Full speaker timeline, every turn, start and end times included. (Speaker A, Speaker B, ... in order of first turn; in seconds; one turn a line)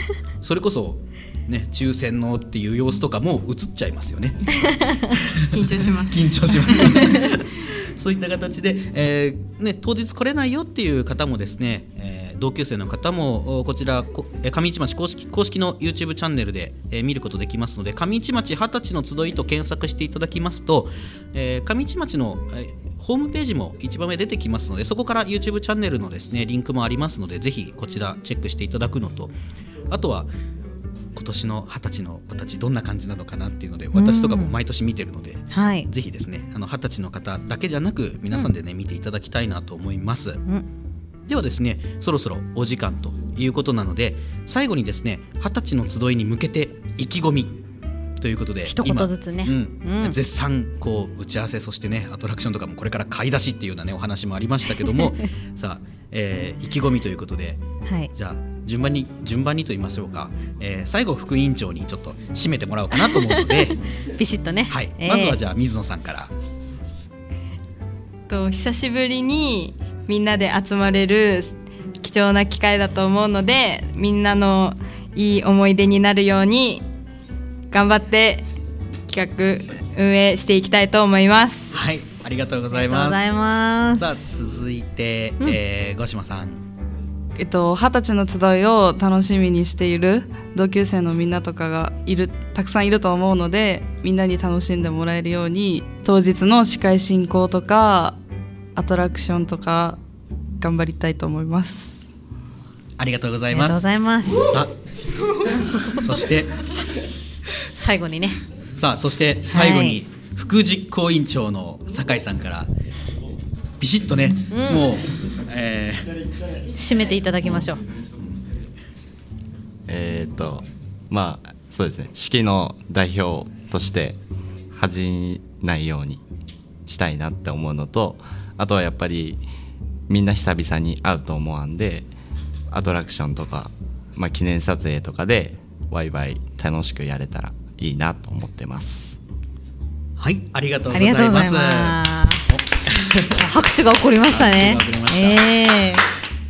Speaker A: 0.4-29.4
Speaker B: 5.5-6.9
Speaker A: 29.9-30.3
Speaker A: 31.1-40.4
Speaker C: 34.0-34.5
Speaker C: 35.5-35.9
Speaker A: 41.3-47.6
Speaker A: 48.2-63.8
Speaker C: 48.7-50.2
Speaker C: 57.9-58.1
Speaker C: 64.2-65.4
Speaker A: 64.7-66.3
Speaker B: 68.3-76.8
Speaker B: 77.7-78.5
Speaker B: 79.1-81.7
Speaker A: 81.7-83.3
Speaker C: 82.8-84.2
Speaker A: 84.0-86.6
Speaker D: 87.4-98.2
Speaker D: 98.8-100.0
Speaker D: 100.6-102.0
Speaker A: 103.0-104.7
Speaker C: 103.5-104.6
Speaker A: 105.9-106.6
Speaker C: 107.7-108.4
Speaker A: 108.8-112.7
Speaker C: 109.5-110.0
Speaker A: 113.8-116.1
Speaker C: 114.5-114.9
Speaker C: 116.7-117.8
Speaker A: 117.4-117.7
Speaker E: 119.9-124.2
Speaker E: 124.7-126.2
Speaker E: 126.9-129.4
Speaker E: 130.1-132.1
Speaker E: 132.7-139.2
Speaker A: 140.2-143.6
Speaker C: 140.9-142.6
Speaker C: 143.4-146.1
Speaker A: 144.3-145.5